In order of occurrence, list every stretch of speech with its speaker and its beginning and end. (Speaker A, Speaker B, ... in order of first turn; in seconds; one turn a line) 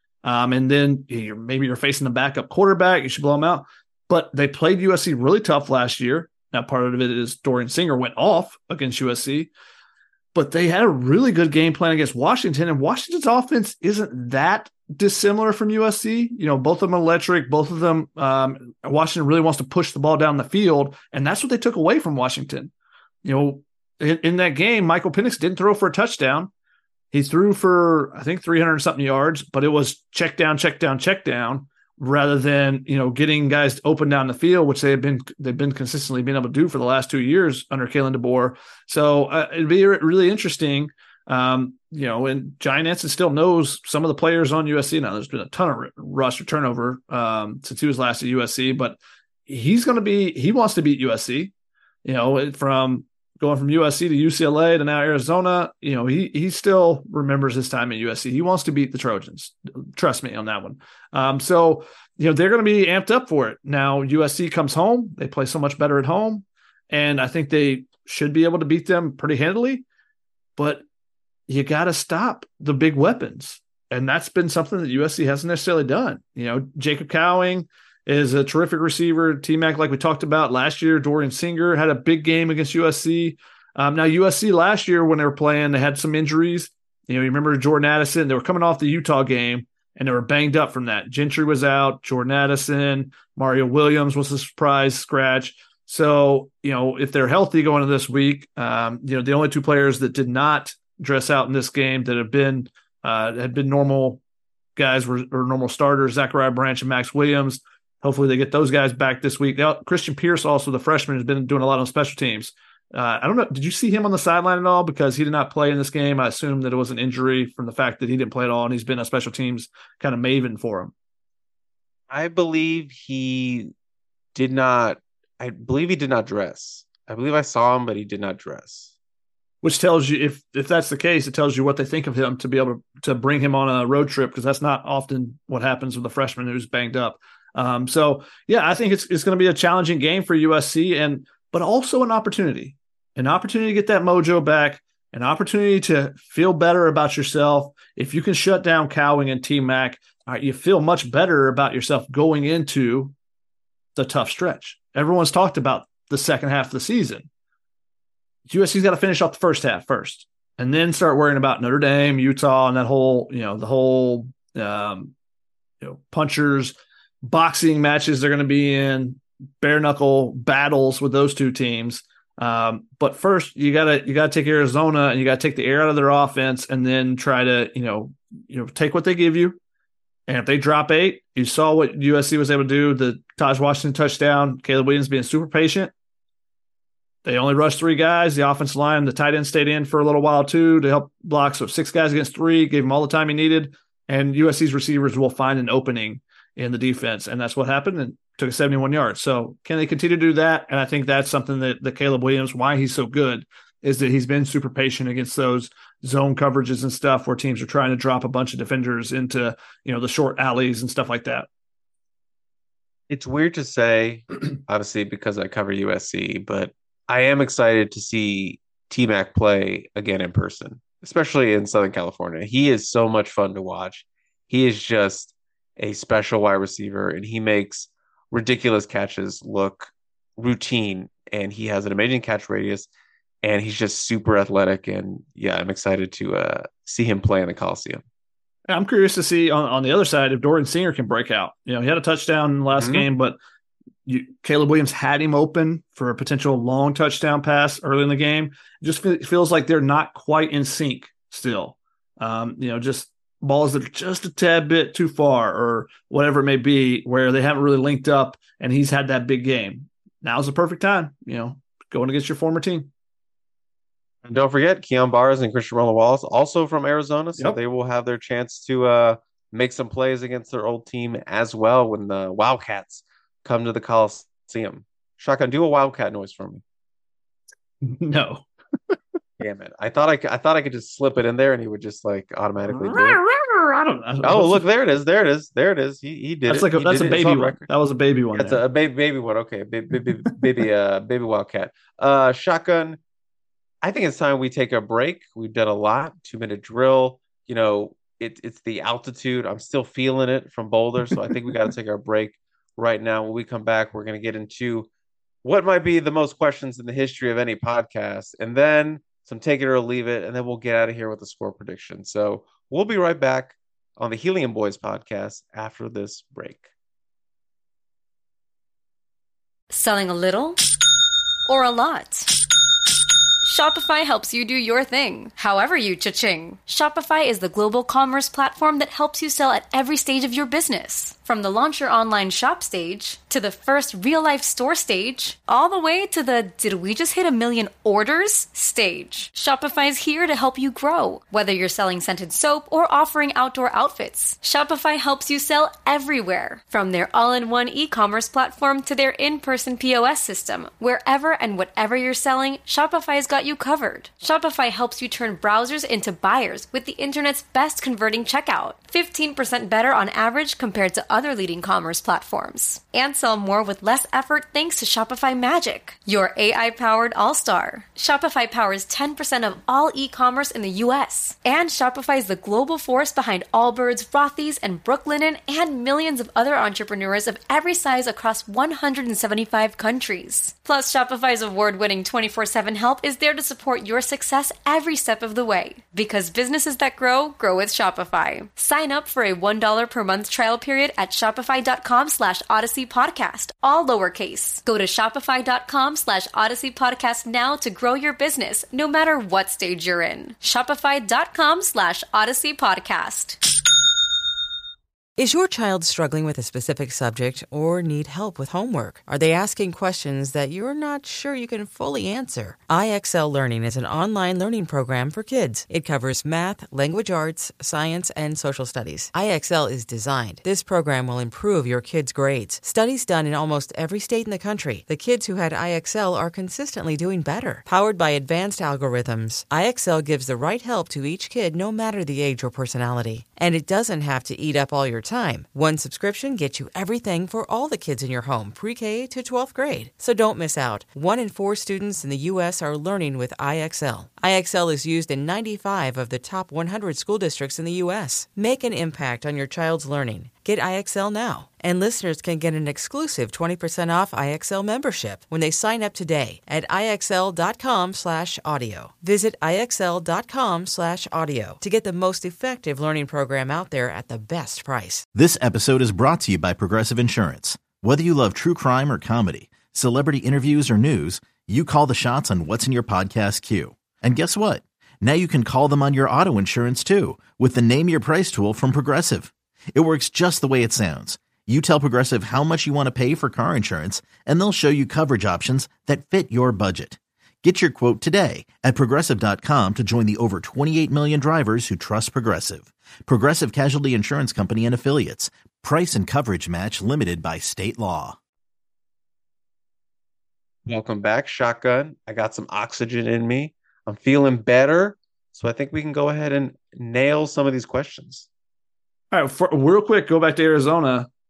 Speaker A: 0.2-9.5
Speaker A: 10.3-22.7
Speaker A: 23.2-26.5
Speaker A: 27.1-51.5
Speaker A: 52.0-69.8
Speaker A: 70.6-70.8
Speaker A: 71.5-104.2
Speaker A: 104.8-120.9
Speaker B: 122.1-123.7
Speaker B: 124.3-128.9
Speaker A: 129.6-153.1
Speaker A: 154.0-157.3
Speaker A: 158.5-165.1
Speaker A: 165.8-179.6
Speaker A: 180.3-185.9
Speaker A: 187.2-211.5
Speaker B: 213.1-232.9
Speaker B: 233.4-238.0
Speaker A: 238.7-243.4
Speaker B: 242.7-243.1
Speaker A: 244.1-262.9
Speaker B: 264.2-276.6
Speaker A: 277.8-279.0
Speaker B: 279.4-283.2
Speaker A: 282.7-284.7
Speaker B: 284.2-287.7
Speaker A: 286.5-288.6
Speaker B: 288.3-293.0
Speaker B: 293.8-304.9
Speaker B: 305.4-316.7
Speaker C: 319.7-320.6
Speaker C: 321.5-322.3
Speaker C: 323.4-403.4
Speaker D: 405.2-465.1
Speaker E: 465.1-498.2
Speaker B: 500.7-508.3
Speaker A: 509.1-511.1